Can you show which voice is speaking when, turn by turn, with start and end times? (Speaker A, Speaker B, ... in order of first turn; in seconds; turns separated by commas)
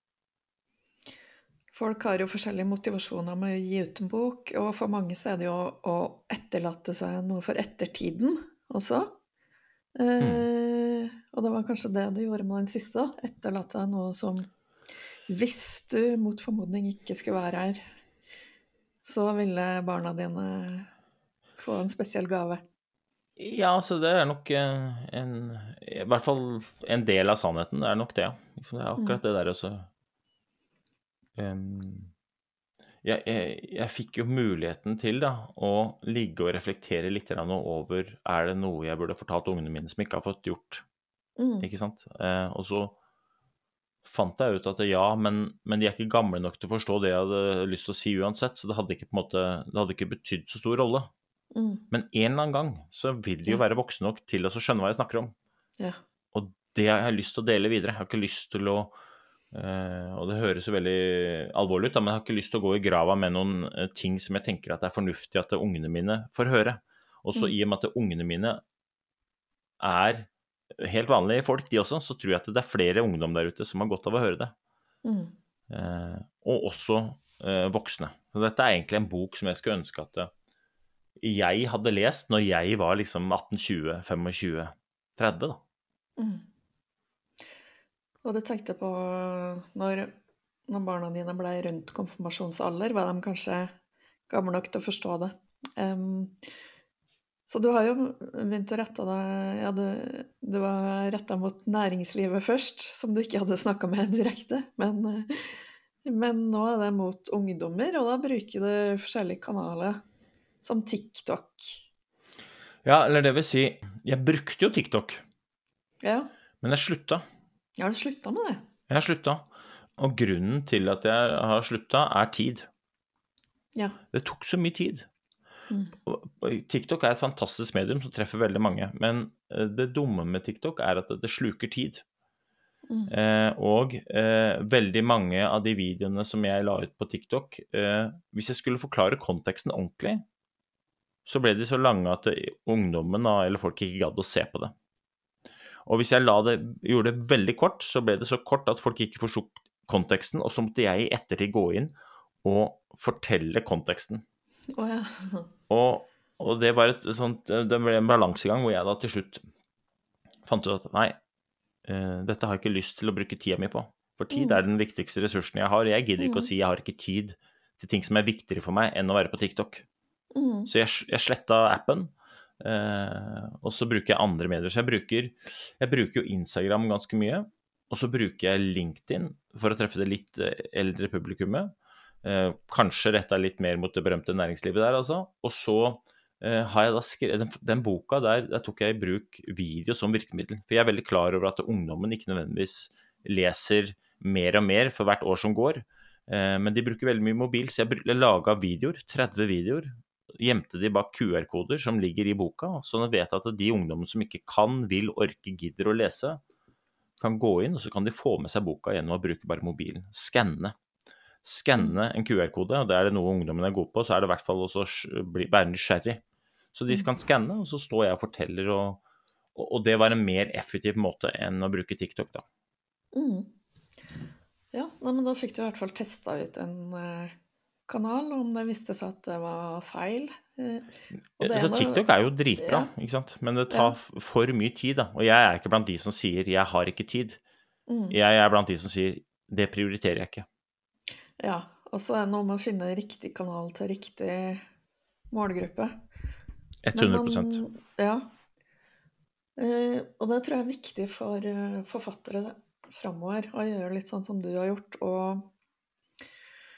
Speaker A: 1.7-9.1, Speaker A: 10.0-14.5, Speaker B: 10.2-10.5, Speaker A: 15.3-17.8, Speaker A: 19.0-20.9, Speaker A: 21.6-22.6, Speaker B: 23.4-29.9, Speaker B: 31.4-32.1, Speaker B: 33.0-40.8, Speaker A: 41.4-41.7, Speaker B: 41.6-43.0, Speaker B: 44.0-51.1, Speaker A: 51.5-51.8, Speaker B: 51.9-55.3, Speaker B: 56.3-58.9, Speaker B: 59.5-68.6, Speaker B: 69.8-74.5, Speaker A: 75.0-75.3, Speaker B: 75.7-80.3, Speaker B: 81.2-85.6, Speaker A: 86.2-86.5, Speaker A: 88.2-90.1, Speaker A: 90.7-93.7, Speaker A: 94.3-96.4, Speaker A: 97.5-110.0, Speaker A: 110.6-111.8, Speaker B: 112.8-115.2, Speaker A: 116.0-116.3, Speaker B: 116.6-117.2, Speaker A: 117.8-118.6, Speaker B: 118.9-122.7, Speaker B: 124.1-125.1, Speaker A: 125.7-126.0, Speaker B: 126.1-132.0, Speaker B: 133.1-140.2, Speaker B: 141.3-144.7, Speaker B: 145.9-154.2, Speaker A: 154.7-155.5, Speaker B: 155.7-159.4, Speaker B: 160.4-161.2, Speaker B: 161.8-169.8, Speaker A: 164.3-164.6, Speaker A: 166.2-166.5, Speaker A: 170.3-170.7, Speaker B: 170.7-181.7, Speaker B: 182.2-206.4, Speaker B: 207.2-210.8, Speaker B: 211.4-216.2, Speaker B: 216.7-219.0, Speaker B: 219.6-222.4, Speaker A: 223.1-223.5, Speaker A: 224.7-227.3, Speaker A: 227.9-230.9, Speaker A: 231.4-232.1, Speaker B: 231.4-237.4, Speaker A: 232.6-232.9, Speaker A: 233.7-234.0, Speaker A: 237.9-238.2, Speaker B: 238.1-240.5, Speaker A: 241.4-244.6, Speaker A: 245.3-246.0, Speaker B: 246.8-247.6, Speaker A: 246.9-248.3, Speaker A: 249.6-255.5